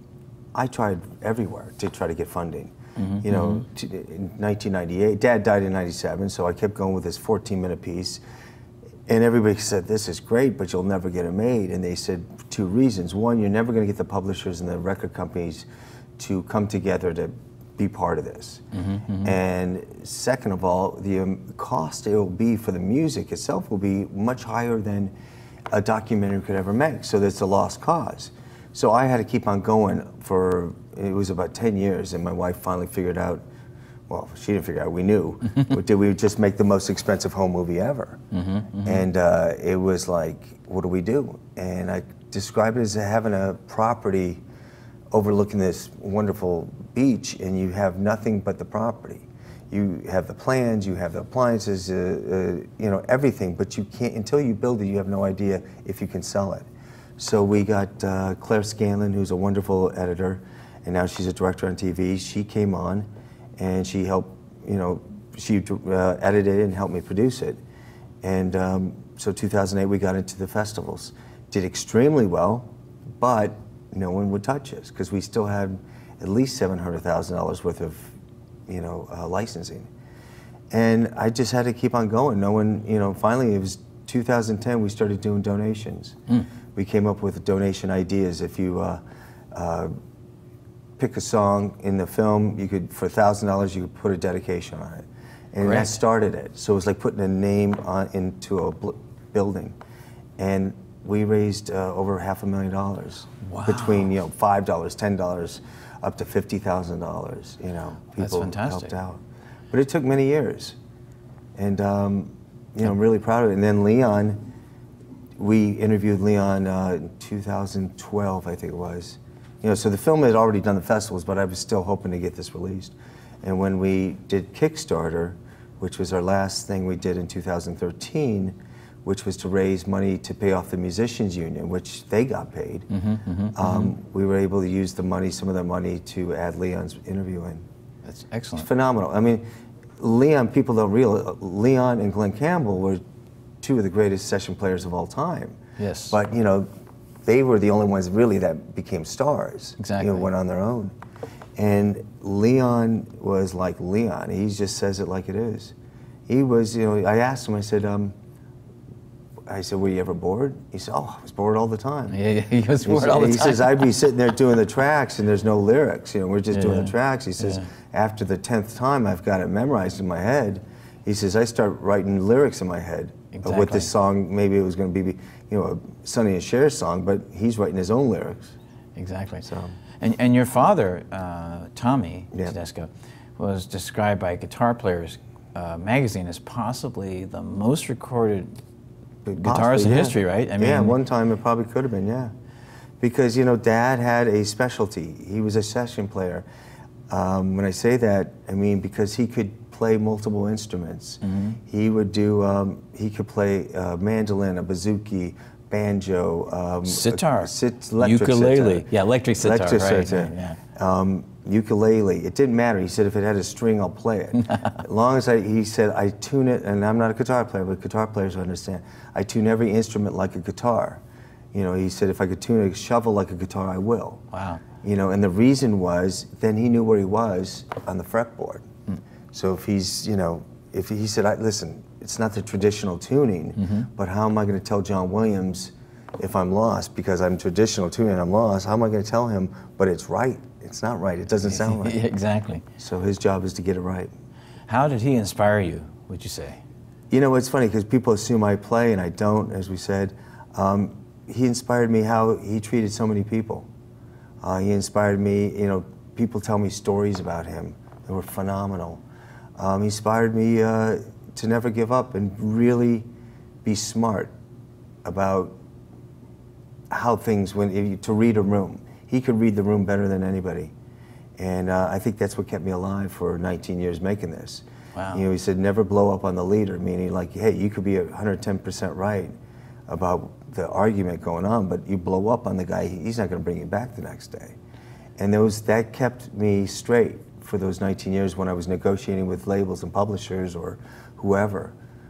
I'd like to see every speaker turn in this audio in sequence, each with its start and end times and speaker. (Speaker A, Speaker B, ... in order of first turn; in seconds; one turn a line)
Speaker A: 0.5-8.2
Speaker B: 3.0-3.6
Speaker A: 9.1-18.6
Speaker B: 18.7-19.4
Speaker A: 19.2-25.1
Speaker A: 25.7-33.4
Speaker A: 34.1-38.2
Speaker B: 38.3-39.0
Speaker A: 38.9-44.4
Speaker A: 45.1-67.6
Speaker A: 68.2-78.2
Speaker A: 78.7-79.9
Speaker A: 80.7-86.2
Speaker A: 86.7-89.0
Speaker A: 89.5-90.0
Speaker A: 91.0-99.8
Speaker B: 95.6-96.0
Speaker A: 100.4-110.8
Speaker B: 103.4-104.1
Speaker B: 108.2-108.9
Speaker A: 111.6-114.4
Speaker A: 115.4-132.9
Speaker B: 132.9-133.9
Speaker A: 133.6-137.6
Speaker B: 138.1-138.7
Speaker A: 138.6-139.4
Speaker A: 140.0-143.0
Speaker A: 143.6-145.6
Speaker B: 145.8-146.2
Speaker A: 146.1-146.7
Speaker A: 147.2-150.9
Speaker B: 149.8-150.3
Speaker A: 151.6-155.7
Speaker A: 156.3-158.2
Speaker A: 159.4-162.2
Speaker B: 162.1-163.8
Speaker A: 162.8-178.6
Speaker B: 166.5-167.7
Speaker B: 173.3-173.9
Speaker B: 178.9-179.5
Speaker A: 179.4-179.8
Speaker B: 180.0-188.5
Speaker A: 189.2-192.3
Speaker B: 189.4-190.9
Speaker A: 193.0-196.4
Speaker A: 197.1-208.9
Speaker B: 201.2-201.6
Speaker B: 206.9-210.6
Speaker A: 209.4-221.0
Speaker B: 214.5-214.8
Speaker A: 221.5-224.2
Speaker B: 224.3-224.6
Speaker A: 224.8-228.7
Speaker A: 229.3-242.0
Speaker B: 233.6-233.9
Speaker B: 241.5-242.6
Speaker A: 242.8-244.1
Speaker B: 244.7-246.6
Speaker A: 247.1-253.7
Speaker A: 254.4-259.0
Speaker A: 259.6-263.1
Speaker A: 263.6-264.3
Speaker A: 265.0-265.6
Speaker A: 266.9-270.7
Speaker A: 271.4-279.3
Speaker B: 274.9-275.2
Speaker A: 279.9-284.6
Speaker A: 285.2-291.7